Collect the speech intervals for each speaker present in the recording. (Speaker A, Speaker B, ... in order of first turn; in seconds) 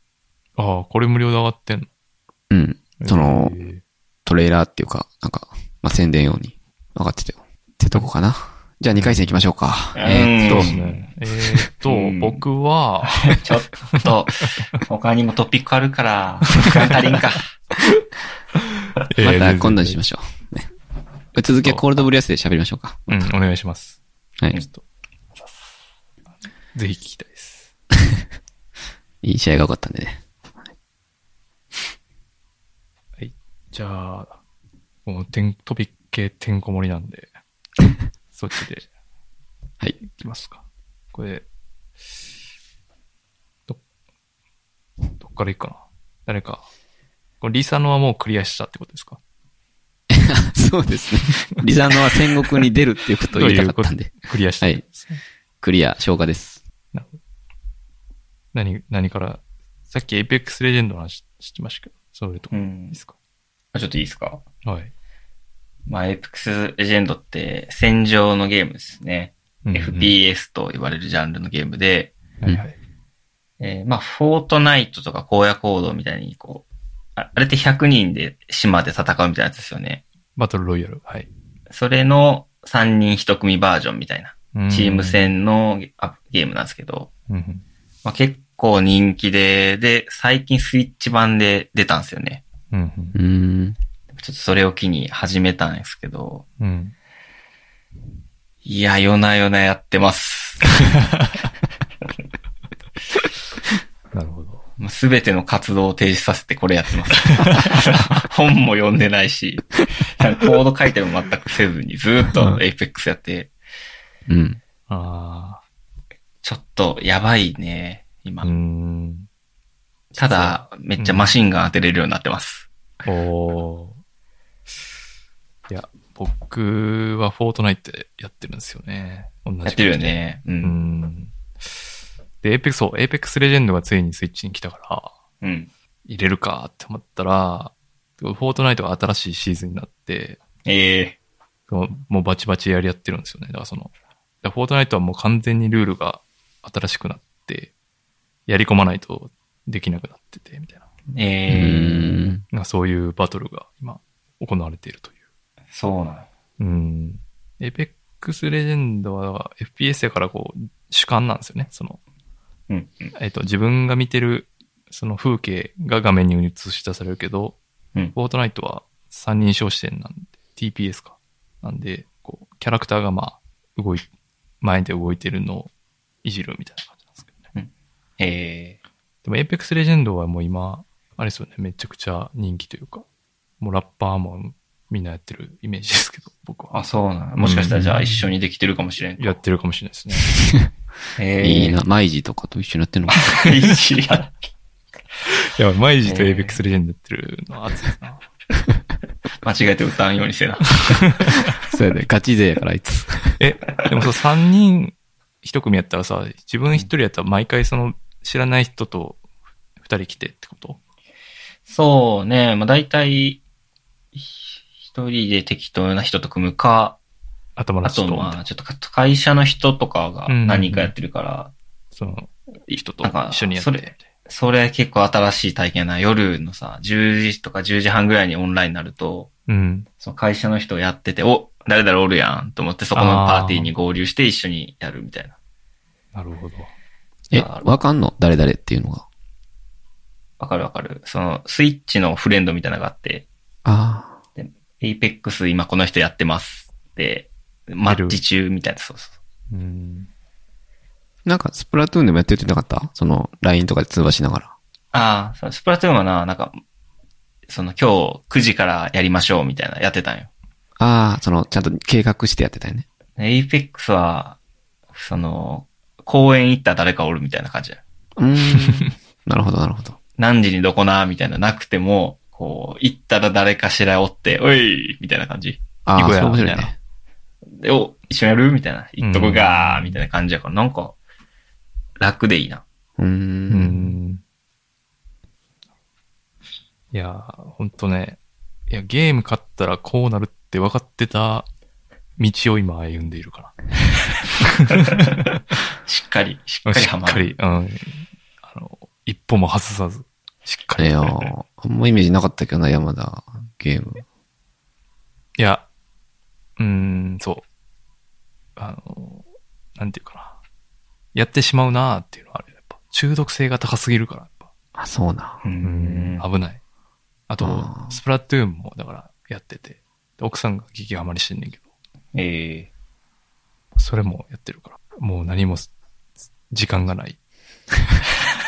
Speaker A: 0.6-1.9, 3.0-3.8, 8.9-9.3, 10.4-14.6, 19.0-20.0, 21.6-21.8, 23.1-24.0, 26.7-27.7, 33.2-34.4, 35.0-37.3, 38.3-38.9, 40.0-41.4, 45.2-46.6, 47.4-49.2, 53.3-55.2, 58.5-63.1, 64.6-64.9, 69.6-70.1, 72.4-72.8, 80.3-81.3, 84.5-85.2, 87.3-87.6, 92.7-93.2, 96.6-96.9, 100.9-101.3, 104.1-104.6, 107.3-107.7, 114.9-115.6, 118.4-119.3, 120.2-121.3, 123.0-124.0, 125.7-131.3, 132.4-135.2, 136.1-140.4, 141.7-147.7, 148.5-150.8, 152.5-155.2, 156.6-162.0, 163.2-167.6, 168.1-174.1, 174.6-175.7, 176.2-177.3, 179.2-183.1, 183.6-186.8, 187.4-188.2, 189.2-190.4, 195.3-198.2, 200.9-201.4, 203.4-209.2, 209.8-210.8, 217.6-218.4, 220.3-220.9, 221.9-224.0, 229.5-229.9, 232.9-233.7, 236.1-236.7, 247.8-248.2, 249.5-250.1, 268.6-268.9, 275.9-276.7, 279.0-280.0, 283.5-284.2, 286.9-288.2, 288.7-291.5, 292.2-293.6, 294.4-295.3, 296.6-301.3, 305.4-305.6, 306.6-307.4, 308.6-310.4, 311.1-314.5, 315.6-316.6, 317.3-321.6, 323.8-325.7, 326.5-327.2
Speaker B: 2.5-3.6, 4.2-10.8, 19.2-20.7, 21.3-23.1, 29.2-30.2, 50.1-54.8, 55.6-56.6, 93.1-93.8, 114.3-114.6, 151.5-152.4, 190.3-190.7, 191.4-193.4, 201.7-203.4, 237.3-239.0, 243.6-244.2, 251.2-254.5, 260.8-262.9, 268.2-270.0, 275.9-276.7, 283.0-283.9, 300.8-304.0, 314.8-315.4, 317.4-318.0
Speaker C: 9.9-11.1, 11.8-12.4, 13.1-17.5, 62.5-63.0, 63.7-64.4, 65.9-72.1, 73.6-76.6, 77.2-80.0, 81.7-87.1, 88.0-92.4, 94.1-96.4, 98.6-100.8, 104.8-113.5, 116.4-118.5, 120.1-122.7, 129.6-130.7, 135.4-135.7, 140.7-141.2, 151.1-152.3, 155.7-156.3, 162.7-163.1, 177.5-178.8, 186.7-189.4, 191.2-191.8, 193.2-194.5, 196.0-196.6, 199.4-201.3, 211.7-213.4, 214.1-217.0, 217.8-221.5, 222.7-229.3, 230.0-235.3, 237.3-237.7, 240.4-243.3, 244.4-249.1, 254.9-256.6, 257.5-260.3, 263.2-264.4, 264.9-267.8, 270.2-275.6, 277.6-280.9, 282.0-282.6, 295.9-297.3, 315.4-316.2, 322.1-322.7